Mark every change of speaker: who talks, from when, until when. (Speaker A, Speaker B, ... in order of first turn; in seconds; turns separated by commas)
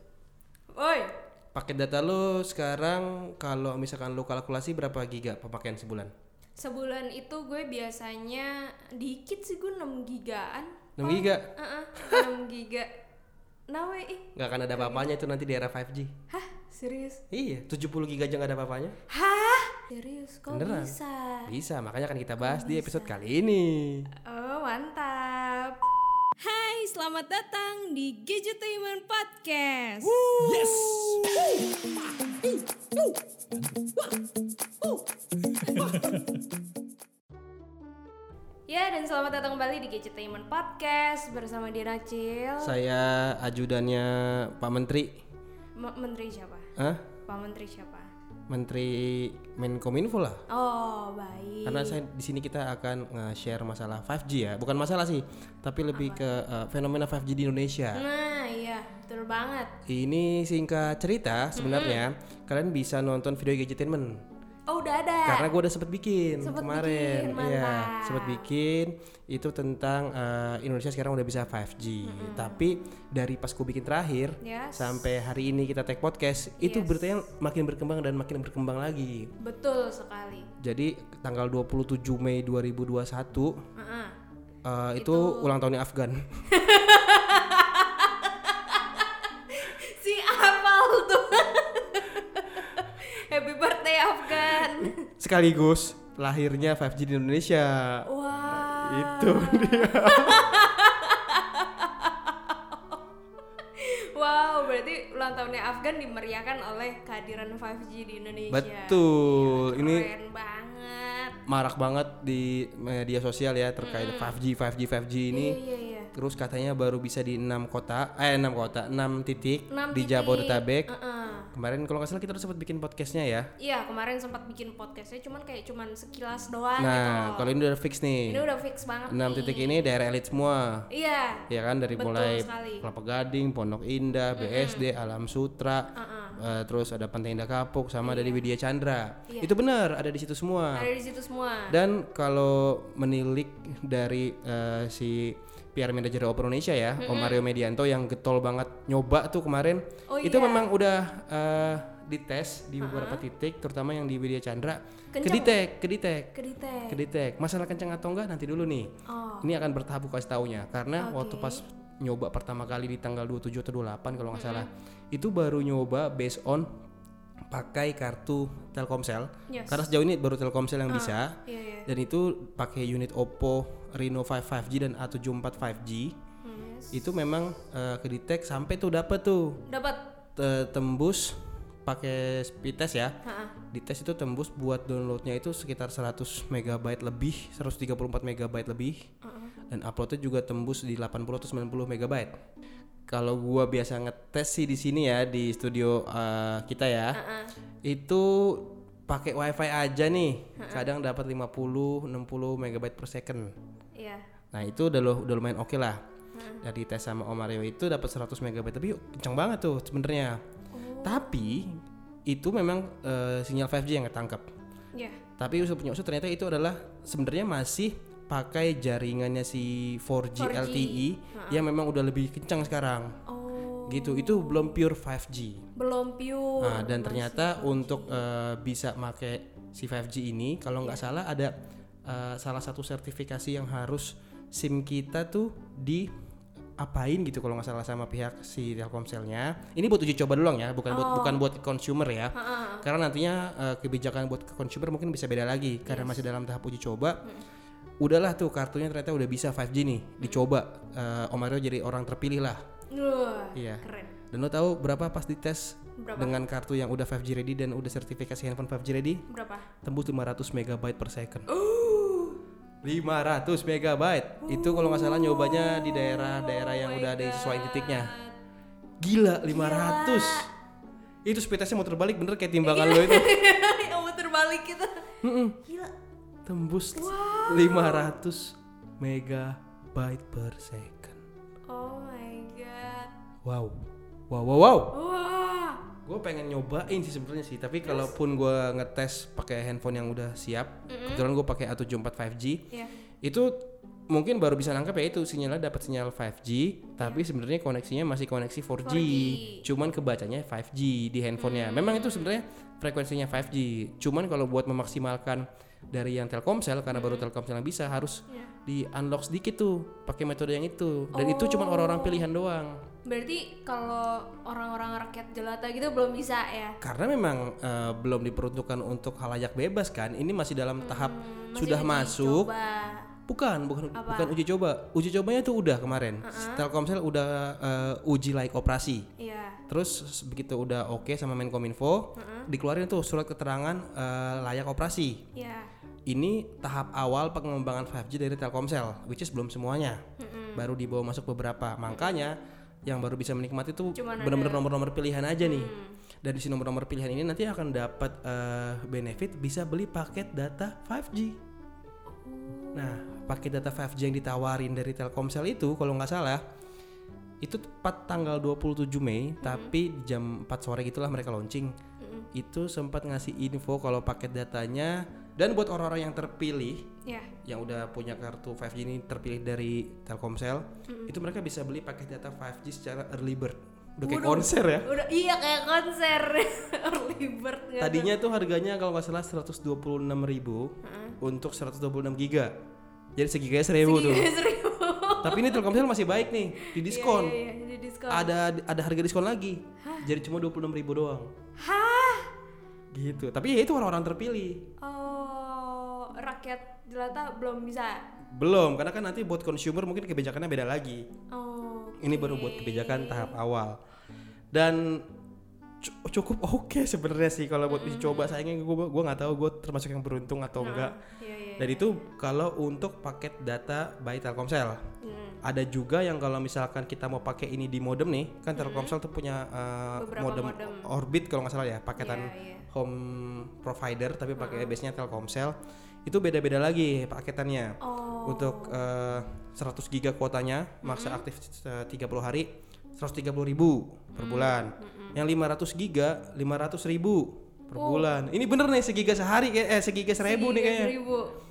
Speaker A: 0.7-1.1, Speaker B: 1.5-6.1, Speaker A: 6.6-12.9, Speaker B: 11.0-12.2, Speaker A: 13.7-15.1, Speaker B: 14.3-16.1, Speaker A: 16.3-17.2, Speaker B: 17.3-18.9, Speaker A: 19.1-21.5, Speaker B: 20.5-20.9, Speaker B: 21.5-24.1, Speaker A: 22.4-23.2, Speaker A: 24.2-25.8, Speaker A: 26.4-33.1, Speaker B: 30.4-31.1, Speaker A: 35.6-36.2, Speaker A: 38.7-42.8, Speaker B: 42.6-45.2, Speaker A: 45.7-46.7, Speaker B: 46.8-47.1, Speaker A: 47.3-48.1, Speaker B: 48.5-50.4, Speaker A: 50.5-52.0, Speaker B: 51.6-58.0, Speaker A: 55.9-56.3, Speaker A: 57.9-59.7, Speaker B: 59.9-64.2, Speaker A: 61.5-62.0, Speaker A: 64.7-65.5, Speaker B: 65.2-79.3, Speaker A: 66.4-68.4, Speaker A: 72.0-72.7, Speaker A: 74.4-75.0, Speaker A: 76.6-77.3, Speaker A: 79.4-80.5, Speaker B: 80.6-83.6, Speaker A: 83.8-84.2, Speaker B: 84.6-86.2, Speaker A: 85.0-85.5, Speaker A: 86.5-95.0, Speaker B: 94.7-100.6, Speaker A: 98.0-103.0, Speaker A: 103.6-111.4, Speaker B: 108.5-110.1, Speaker B: 111.5-115.6, Speaker A: 113.8-114.4, Speaker A: 115.3-116.1, Speaker B: 116.1-120.9, Speaker A: 119.7-121.5, Speaker B: 121.5-123.5, Speaker A: 123.6-127.6, Speaker B: 126.8-128.4, Speaker A: 128.3-129.9, Speaker B: 129.1-130.9, Speaker A: 130.9-132.9, Speaker B: 131.5-140.9, Speaker A: 134.3-134.9, Speaker A: 135.9-136.4, Speaker A: 138.0-138.4, Speaker A: 140.7-141.8, Speaker B: 141.7-156.3, Speaker A: 147.0-147.4, Speaker A: 150.1-150.7, Speaker A: 152.8-153.2, Speaker A: 155.1-155.6, Speaker A: 156.3-157.0, Speaker B: 156.9-166.7, Speaker A: 159.1-159.5, Speaker A: 161.0-161.6, Speaker A: 164.3-164.7, Speaker B: 167.5-176.2, Speaker A: 169.5-169.9, Speaker A: 170.9-171.9, Speaker A: 176.4-177.0, Speaker B: 176.9-179.6, Speaker A: 179.7-180.0, Speaker B: 180.3-183.2, Speaker A: 183.2-183.5, Speaker B: 183.7-189.1, Speaker A: 189.2-189.5, Speaker B: 189.7-192.4, Speaker B: 193.1-197.2, Speaker A: 197.1-197.5, Speaker B: 197.8-203.5, Speaker A: 200.6-200.9, Speaker A: 203.9-204.2, Speaker B: 204.5-206.0, Speaker A: 206.3-206.7, Speaker B: 206.6-210.4, Speaker A: 210.7-211.3, Speaker B: 211.0-214.4, Speaker A: 214.9-215.2, Speaker B: 215.4-223.2, Speaker A: 220.4-221.7, Speaker A: 223.3-224.8, Speaker B: 223.9-225.6, Speaker A: 225.8-228.2, Speaker B: 226.6-231.5, Speaker B: 232.1-236.1, Speaker B: 236.8-247.2, Speaker A: 240.9-241.4, Speaker A: 242.3-242.9, Speaker A: 245.8-246.2, Speaker B: 248.0-252.6, Speaker A: 250.2-250.5, Speaker A: 252.9-254.2, Speaker B: 253.5-259.2, Speaker A: 256.0-256.4, Speaker A: 259.3-259.7, Speaker B: 259.8-261.5, Speaker A: 261.5-262.4, Speaker B: 262.8-268.1, Speaker A: 264.4-268.3, Speaker B: 269.0-270.5, Speaker A: 269.4-270.5, Speaker B: 271.2-273.4, Speaker A: 272.6-275.1, Speaker B: 275.2-275.6, Speaker A: 275.6-275.9, Speaker B: 276.4-281.2, Speaker A: 276.9-278.1, Speaker A: 281.6-283.1, Speaker B: 283.4-285.0, Speaker A: 284.9-285.9, Speaker B: 286.0-292.6, Speaker A: 287.8-288.1, Speaker A: 290.9-291.2, Speaker B: 293.2-312.8, Speaker A: 298.8-299.6, Speaker A: 301.4-302.4, Speaker A: 306.9-307.3, Speaker A: 308.3-308.5, Speaker A: 311.1-312.3, Speaker A: 313.0-316.8, Speaker B: 316.8-322.5, Speaker A: 320.8-323.1, Speaker B: 323.3-329.1, Speaker A: 323.9-324.4, Speaker A: 326.2-326.7, Speaker A: 329.2-329.6, Speaker B: 329.7-335.2, Speaker A: 332.1-332.5, Speaker A: 335.3-335.7, Speaker B: 336.1-340.0, Speaker A: 340.2-340.7, Speaker B: 340.6-345.7, Speaker A: 341.9-342.2, Speaker A: 343.9-344.6, Speaker A: 345.4-346.0, Speaker B: 346.2-351.4, Speaker A: 352.2-353.1, Speaker B: 352.7-356.4, Speaker B: 357.4-361.7, Speaker A: 359.4-359.7, Speaker A: 362.0-362.3, Speaker B: 362.3-366.9, Speaker A: 367.0-367.3, Speaker B: 367.4-374.9, Speaker A: 370.9-371.2, Speaker A: 374.0-378.1, Speaker B: 377.8-382.5, Speaker A: 380.8-381.2, Speaker B: 383.2-384.3, Speaker A: 383.8-385.8, Speaker B: 385.2-387.4, Speaker A: 386.6-388.3, Speaker B: 388.1-391.3, Speaker A: 389.8-390.1, Speaker A: 391.6-392.3, Speaker B: 392.9-394.7, Speaker A: 394.8-398.1, Speaker B: 398.3-401.0, Speaker A: 401.3-403.4, Speaker B: 402.0-403.8, Speaker B: 404.5-405.1, Speaker B: 405.8-411.0, Speaker A: 407.7-408.4, Speaker A: 410.6-412.0, Speaker B: 411.6-414.8, Speaker A: 415.0-415.4, Speaker B: 415.4-425.5, Speaker A: 418.6-418.9, Speaker A: 420.0-420.9, Speaker A: 422.0-422.7, Speaker A: 424.4-424.8, Speaker B: 426.1-440.9, Speaker A: 427.8-428.8, Speaker A: 430.8-431.2, Speaker A: 434.1-435.2, Speaker A: 437.8-438.1, Speaker A: 440.2-441.4